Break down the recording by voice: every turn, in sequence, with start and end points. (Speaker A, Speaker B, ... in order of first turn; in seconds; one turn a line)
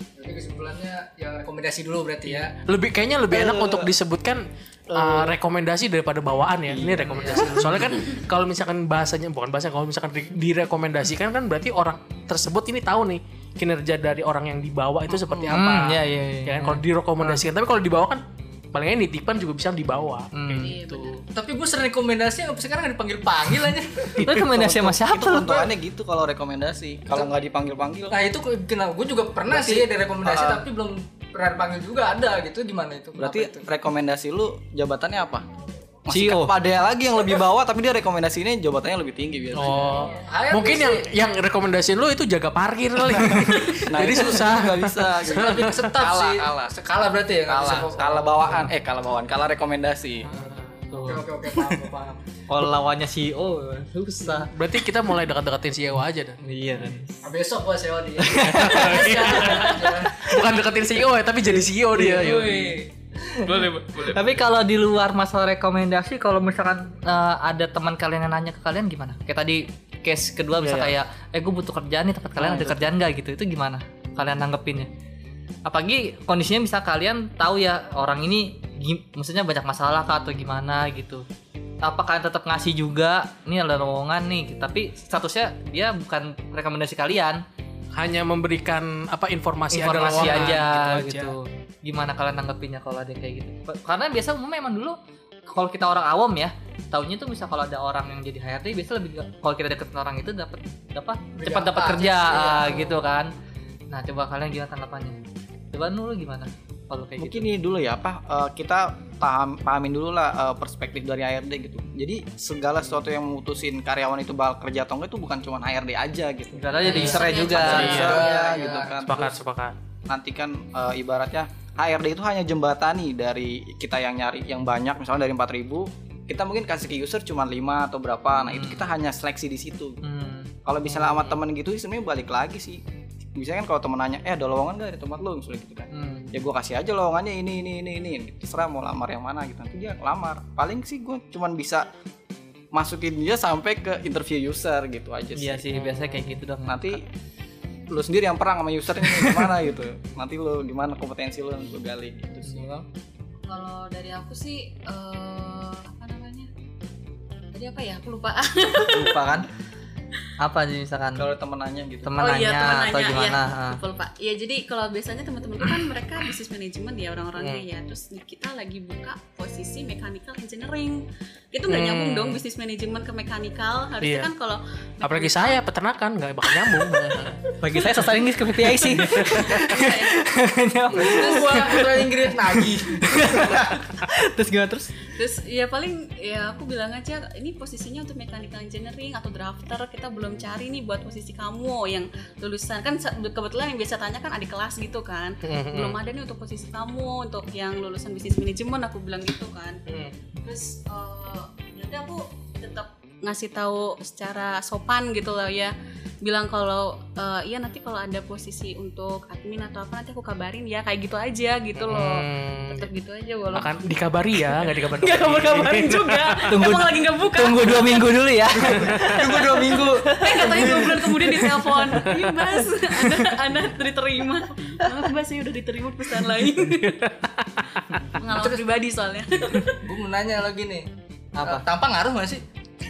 Speaker A: 0.2-2.6
Speaker B: 2.6-21.2
Speaker C: 3.3-3.9
Speaker C: 4.9-5.3
Speaker C: 6.7-8.1
Speaker C: 15.1-15.6
Speaker D: 15.5-16.8
Speaker D: 20.3-20.7
Speaker E: 20.5-21.2
Speaker A: 21.3-24.2
Speaker D: 24.2-25.7
Speaker C: 24.2-28.2
Speaker A: 28.1-33.6
Speaker C: 29.5-30.6
Speaker C: 33.2-35.4
Speaker C: 36.1-40.1
Speaker D: 36.1-36.5
Speaker B: 39.5-45.9
Speaker A: 40.1-41.1
Speaker C: 43.0-46.7
Speaker A: 45.2-48.5
Speaker C: 47.5-50.3
Speaker B: 50.3-50.6
Speaker D: 50.9-51.2
Speaker A: 51.0-52.2
Speaker D: 52.5-54.5
Speaker B: 54.5-56.4
Speaker D: 56.4-57.3
Speaker A: 57.2-60.3
Speaker D: 58.2-59.7
Speaker B: 58.4-62.7
Speaker A: 61.9-63.8
Speaker D: 63.4-74.9
Speaker C: 70.6-70.9
Speaker C: 72.3-72.9
Speaker D: 75.7-81.2
Speaker D: 81.8-87.4
Speaker B: 87.9-91.3
Speaker D: 89.7-103.3
Speaker A: 101.3-103.0
Speaker D: 103.9-105.2
Speaker D: 105.7-107.5
Speaker C: 107.2-119.3
Speaker D: 116.5-118.2
Speaker E: 116.8-117.9
Speaker B: 117.7-118.3
Speaker A: 117.8-119.3
Speaker B: 119.1-119.8
Speaker C: 120.1-130.0
Speaker D: 128.5-128.8
Speaker D: 130.0-130.5
Speaker C: 130.7-132.8
Speaker B: 131.1-131.4
Speaker C: 133.3-141.9
Speaker D: 135.9-136.3
Speaker C: 142.7-147.0
Speaker D: 145.3-147.0
Speaker C: 147.9-152.7
Speaker D: 149.0-149.4
Speaker D: 152.4-152.8
Speaker E: 153.5-156.5
Speaker E: 157.5-159.4
Speaker D: 158.8-159.5
Speaker D: 160.4-161.2
Speaker C: 161.2-162.2
Speaker D: 162.0-163.8
Speaker E: 162.2-175.6
Speaker B: 167.4-167.6
Speaker B: 171.7-172.4
Speaker B: 174.0-174.3
Speaker B: 175.0-177.4
Speaker D: 177.5-184.9
Speaker B: 178.8-179.4
Speaker E: 179.1-180.4
Speaker E: 180.9-181.9
Speaker A: 181.0-183.4
Speaker E: 185.1-199.8
Speaker B: 195.4-196.0
Speaker B: 199.9-200.1
Speaker E: 200.4-213.7
Speaker B: 211.8-212.9
Speaker B: 213.5-216.7
Speaker E: 214.8-218.1
Speaker D: 216.5-222.2
Speaker A: 218.7-221.0
Speaker B: 218.7-219.2
Speaker E: 220.2-227.0
Speaker B: 226.7-228.0
Speaker E: 228.2-229.8
Speaker A: 228.3-228.6
Speaker A: 229.8-230.9
Speaker D: 231.3-231.6
Speaker A: 231.4-232.4